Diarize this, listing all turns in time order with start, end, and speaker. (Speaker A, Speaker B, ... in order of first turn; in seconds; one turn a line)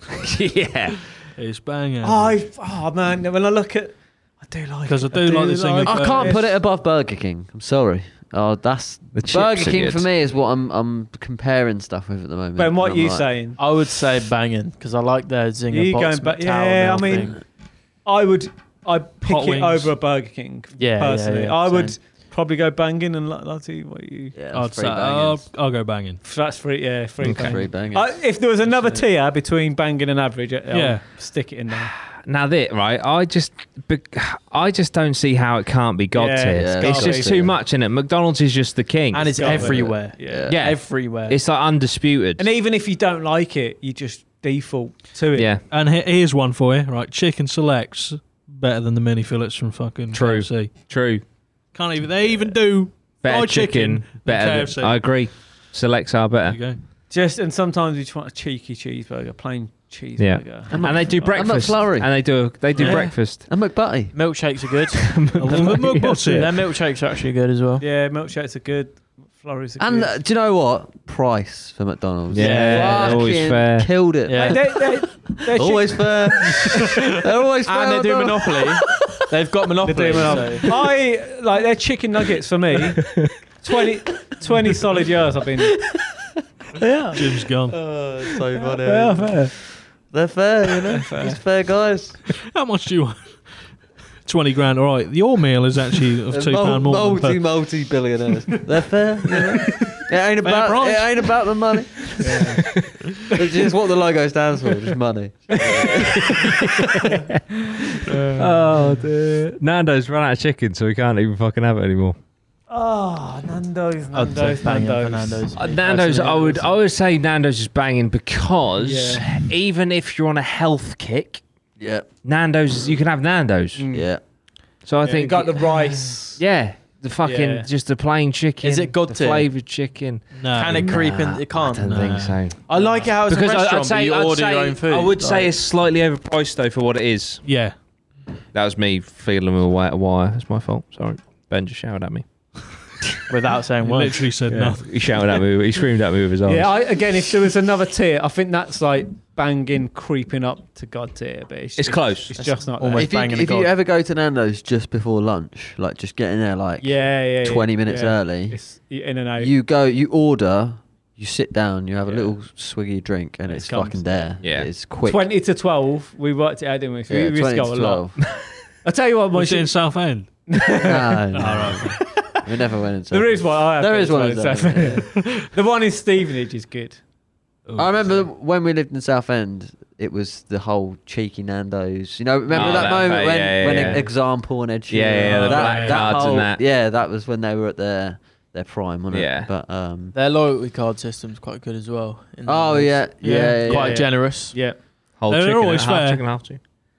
Speaker A: 0.1-1.1
Speaker B: 1.4-2.4
Speaker C: 2.0-6.5
Speaker B: 4.8-6.4
Speaker D: 5.9-13.3
Speaker A: 9.1-10.1
Speaker C: 12.6-13.6
Speaker E: 13.6-17.4
Speaker C: 15.7-17.4
Speaker C: 18.1-24.4
Speaker B: 19.2-19.9
Speaker E: 20.8-22.0
Speaker D: 24.4-25.4
Speaker B: 24.5-26.2
Speaker C: 26.2-31.9
Speaker A: 27.2-27.6
Speaker D: 27.4-29.1
Speaker B: 30.7-31.0
Speaker A: 32.3-39.8
Speaker C: 36.1-37.5
Speaker D: 36.5-37.6
Speaker E: 39.1-41.4
Speaker C: 39.4-40.5
Speaker D: 39.5-40.6
Speaker A: 40.5-42.5
Speaker C: 42.4-45.5
Speaker A: 45.4-45.6
Speaker B: 45.7-50.8
Speaker A: 50.1-51.2
Speaker B: 51.7-55.0
Speaker A: 53.2-56.6
Speaker B: 56.5-56.8
Speaker C: 57.1-61.4
Speaker A: 60.2-63.5
Speaker D: 60.7-62.2
Speaker D: 62.8-64.4
Speaker E: 62.8-63.1
Speaker E: 64.1-67.8
Speaker A: 64.9-66.2
Speaker B: 65.3-66.6
Speaker C: 67.8-70.2
Speaker D: 69.8-74.9
Speaker A: 72.3-74.0
Speaker E: 72.4-73.3
Speaker E: 74.3-74.6
Speaker C: 74.4-76.9
Speaker D: 75.4-79.1
Speaker E: 77.7-80.7
Speaker C: 79.8-85.8
Speaker C: 86.8-87.2
Speaker B: 87.1-87.8
Speaker D: 87.7-92.2
Speaker C: 88.6-89.5
Speaker C: 90.9-91.4
Speaker B: 92.4-93.5
Speaker B: 94.2-97.5
Speaker D: 96.3-102.2
Speaker B: 99.8-101.4
Speaker C: 102.2-102.6
Speaker A: 102.7-102.9
Speaker D: 103.3-106.8
Speaker C: 105.5-107.3
Speaker A: 106.4-107.1
Speaker C: 107.9-109.1
Speaker A: 108.4-112.2
Speaker C: 112.7-115.5
Speaker E: 114.1-116.8
Speaker A: 115.6-121.4
Speaker C: 118.8-119.3
Speaker D: 121.8-122.1
Speaker A: 122.2-123.8
Speaker C: 123.8-124.1
Speaker D: 123.9-124.2
Speaker A: 124.9-132.8
Speaker C: 125.0-126.4
Speaker C: 127.2-127.7
Speaker E: 128.6-129.5
Speaker B: 130.3-131.0
Speaker E: 130.5-135.5
Speaker B: 131.9-132.4
Speaker C: 132.8-133.1
Speaker A: 133.3-137.4
Speaker B: 137.4-137.8
Speaker A: 138.5-142.2
Speaker E: 143.3-144.3
Speaker B: 143.8-145.0
Speaker C: 144.5-144.8
Speaker A: 144.6-146.7
Speaker C: 146.5-153.2
Speaker A: 151.8-152.3
Speaker E: 152.3-153.7
Speaker D: 152.9-158.6
Speaker C: 156.8-159.5
Speaker D: 159.4-165.2
Speaker C: 162.1-162.3
Speaker C: 163.5-164.3
Speaker A: 164.4-164.7
Speaker C: 165.0-168.2
Speaker D: 167.1-168.2
Speaker C: 168.8-172.3
Speaker B: 169.3-170.7
Speaker D: 170.8-175.1
Speaker B: 171.3-172.0
Speaker C: 173.1-177.0
Speaker B: 177.7-178.2
Speaker D: 177.8-190.2
Speaker A: 182.5-184.1
Speaker A: 184.9-186.6
Speaker B: 185.3-186.0
Speaker A: 189.1-189.5
Speaker E: 190.1-194.6
Speaker D: 192.4-194.1
Speaker C: 193.6-194.8
Speaker A: 195.2-196.6
Speaker B: 195.3-196.3